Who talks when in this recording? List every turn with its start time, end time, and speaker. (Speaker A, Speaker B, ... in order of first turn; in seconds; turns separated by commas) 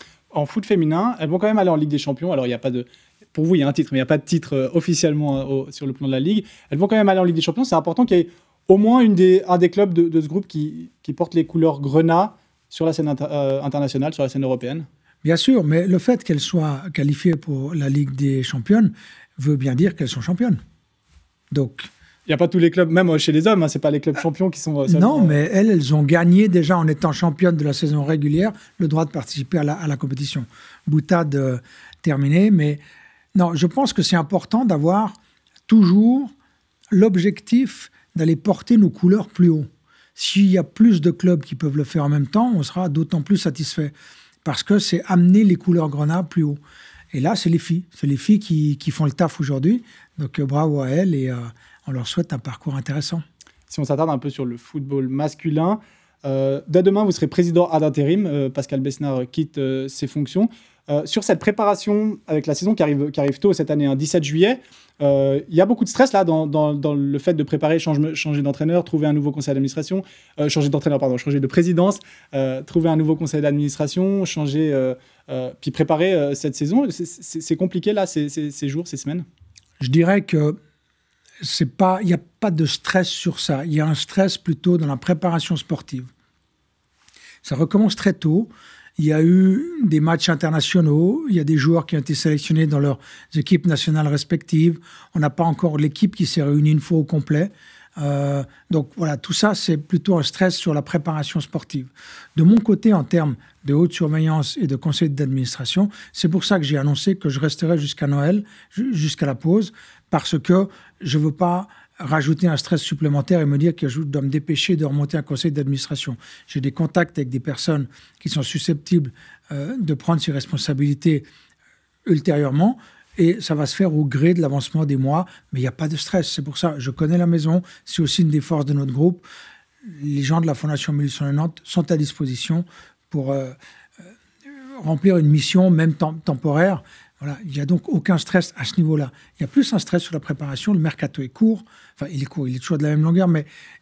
Speaker A: 0.3-14.9, Speaker B: 15.2-20.6, Speaker B: 21.5-21.9, Speaker A: 22.3-25.4, Speaker B: 24.9-32.8, Speaker B: 33.3-35.2, Speaker B: 35.7-36.3, Speaker B: 36.9-43.9, Speaker B: 44.5-46.6, Speaker B: 47.1-53.2, Speaker A: 53.7-79.2, Speaker B: 79.8-80.6, Speaker B: 81.4-86.1, Speaker B: 87.4-121.2, Speaker B: 122.0-129.2, Speaker B: 129.8-133.6, Speaker B: 134.8-143.5